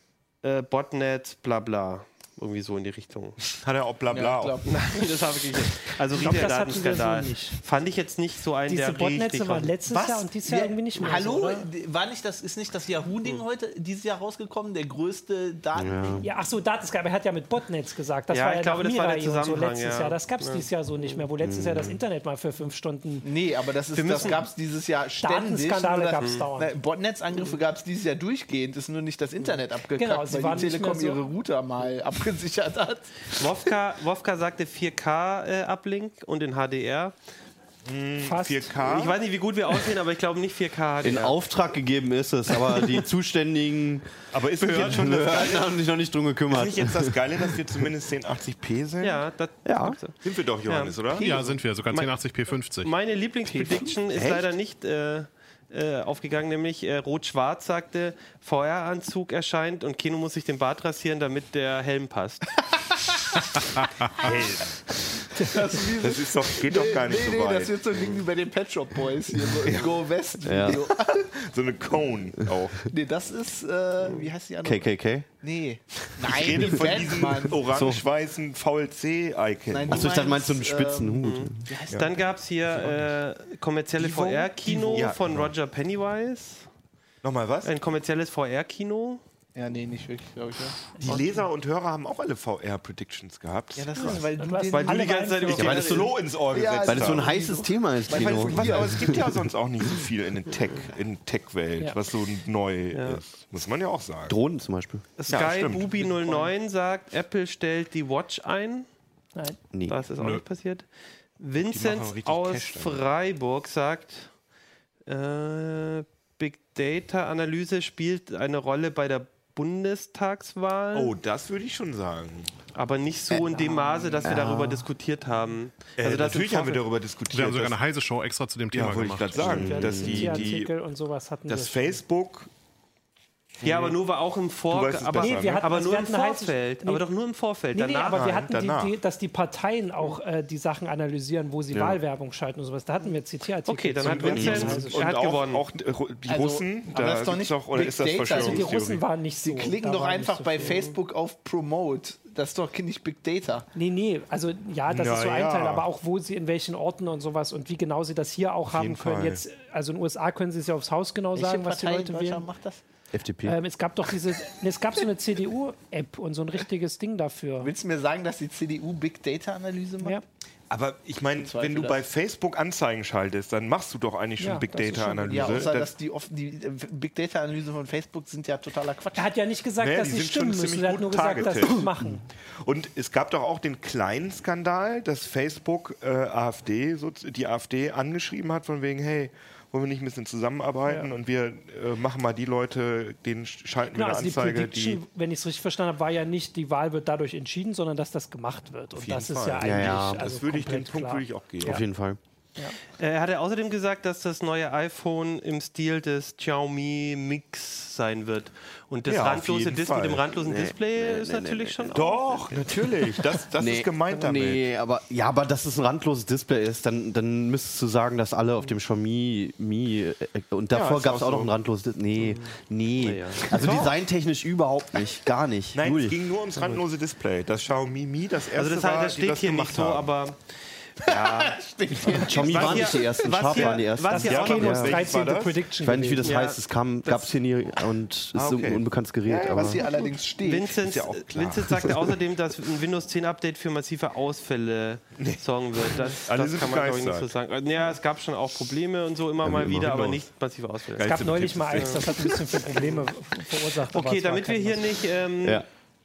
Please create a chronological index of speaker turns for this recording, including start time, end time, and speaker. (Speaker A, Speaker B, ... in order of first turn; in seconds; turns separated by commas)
Speaker A: 0.4-3.4, Speaker B: 3.6-4.6, Speaker C: 4.1-5.3, Speaker A: 4.7-9.7, Speaker D: 6.1-7.6, Speaker D: 8.7-11.7, Speaker C: 9.9-16.3, Speaker E: 15.8-16.3, Speaker D: 16.2-23.3, Speaker A: 18.3-21.2, Speaker E: 21.4-22.0, Speaker C: 23.2-33.5, Speaker A: 23.9-24.5, Speaker D: 25.2-26.8, Speaker A: 26.2-26.4, Speaker D: 29.9-31.2, Speaker A: 33.3-37.1, Speaker B: 37.9-39.2, Speaker D: 38.2-38.7, Speaker A: 38.8-41.4, Speaker E: 41.0-47.6, Speaker B: 44.3-45.7, Speaker B: 46.5-49.2, Speaker A: 49.0-51.0, Speaker E: 49.6-50.0, Speaker B: 50.2-51.3, Speaker C: 51.1-51.6, Speaker F: 51.2-52.9, Speaker A: 51.9-52.2, Speaker A: 52.8-62.5, Speaker C: 53.5-54.0, Speaker B: 54.1-54.5, Speaker B: 64.2-64.8, Speaker C: 65.3-71.3, Speaker B: 66.0-68.2, Speaker B: 69.6-70.0, Speaker E: 70.4-70.9, Speaker B: 71.3-72.9, Speaker C: 72.9-77.6, Speaker E: 74.6-75.3, Speaker B: 76.2-80.3, Speaker E: 76.4-76.8, Speaker E: 77.6-78.0, Speaker C: 79.7-82.2, Speaker E: 79.9-81.7, Speaker A: 81.2-86.7, Speaker B: 84.0-85.5, Speaker B: 87.2-87.8, Speaker A: 87.6-89.2, Speaker C: 89.5-90.9, Speaker B: 91.0-94.2, Speaker D: 91.0-91.3, Speaker C: 93.8-95.2, Speaker D: 94.0-96.1, Speaker A: 94.7-96.1, Speaker E: 95.5-96.2, Speaker B: 95.6-97.3, Speaker C: 96.5-99.3, Speaker E: 96.8-99.4, Speaker B: 98.1-104.4, Speaker A: 102.9-103.2, Speaker E: 104.3-105.0, Speaker A: 105.2-108.9, Speaker B: 105.3-106.1, Speaker C: 106.0-106.5, Speaker E: 109.7-110.0, Speaker A: 109.9-110.9, Speaker A: 111.4-114.3, Speaker B: 111.6-113.0, Speaker A: 115.1-121.1, Speaker B: 120.9-122.5, Speaker A: 122.7-126.8, Speaker D: 123.5-124.3, Speaker E: 124.2-124.8, Speaker B: 126.0-127.8, Speaker F: 127.3-129.7, Speaker B: 128.7-130.7, Speaker E: 129.4-130.5, Speaker D: 129.5-132.0, Speaker B: 131.5-132.5, Speaker B: 133.6-134.0, Speaker A: 133.6-138.3, Speaker B: 134.7-135.7, Speaker D: 135.1-137.0, Speaker D: 137.7-145.1, Speaker B: 138.1-138.9, Speaker A: 143.7-145.7, Speaker B: 144.0-149.1, Speaker E: 144.4-144.7, Speaker C: 146.3-148.8, Speaker D: 148.3-150.9, Speaker C: 149.4-153.7, Speaker A: 150.6-150.9, Speaker D: 153.8-162.5, Speaker B: 154.9-155.9, Speaker B: 158.8-159.4, Speaker E: 158.8-159.2, Speaker C: 161.3-162.8, Speaker E: 163.1-163.6, Speaker D: 163.4-167.7, Speaker C: 167.6-170.2, Speaker B: 170.7-175.9, Speaker C: 171.4-172.0, Speaker D: 174.4-175.8, Speaker C: 175.3-179.3, Speaker D: 179.1-182.2, Speaker B: 179.8-195.0, Speaker D: 190.9-191.1, Speaker D: 193.9-201.8, Speaker B: 199.0-201.8, Speaker E: 199.6-200.2, Speaker E: 201.6-202.2, Speaker A: 203.0-212.4, Speaker B: 209.1-210.2, Speaker E: 210.4-212.0, Speaker B: 211.9-214.7, Speaker E: 212.5-226.2, Speaker B: 220.7-221.5, Speaker A: 223.0-223.6, Speaker B: 223.5-223.9, Speaker B: 225.7-230.1, Speaker A: 228.6-231.6, Speaker C: 231.0-233.4, Speaker E: 232.1-235.0, Speaker A: 232.1-234.9, Speaker D: 234.0-236.3, Speaker B: 234.2-235.6, Speaker E: 235.8-239.9, Speaker A: 236.2-237.3, Speaker B: 238.3-239.9, Speaker C: 239.7-240.8, Speaker A: 240.4-251.2, Speaker B: 240.8-242.0, Speaker B: 245.2-247.3, Speaker E: 249.4-250.2, Speaker B: 251.0-252.4, Speaker D: 251.1-255.0, Speaker A: 251.8-252.0, Speaker A: 252.7-253.0, Speaker A: 253.9-255.6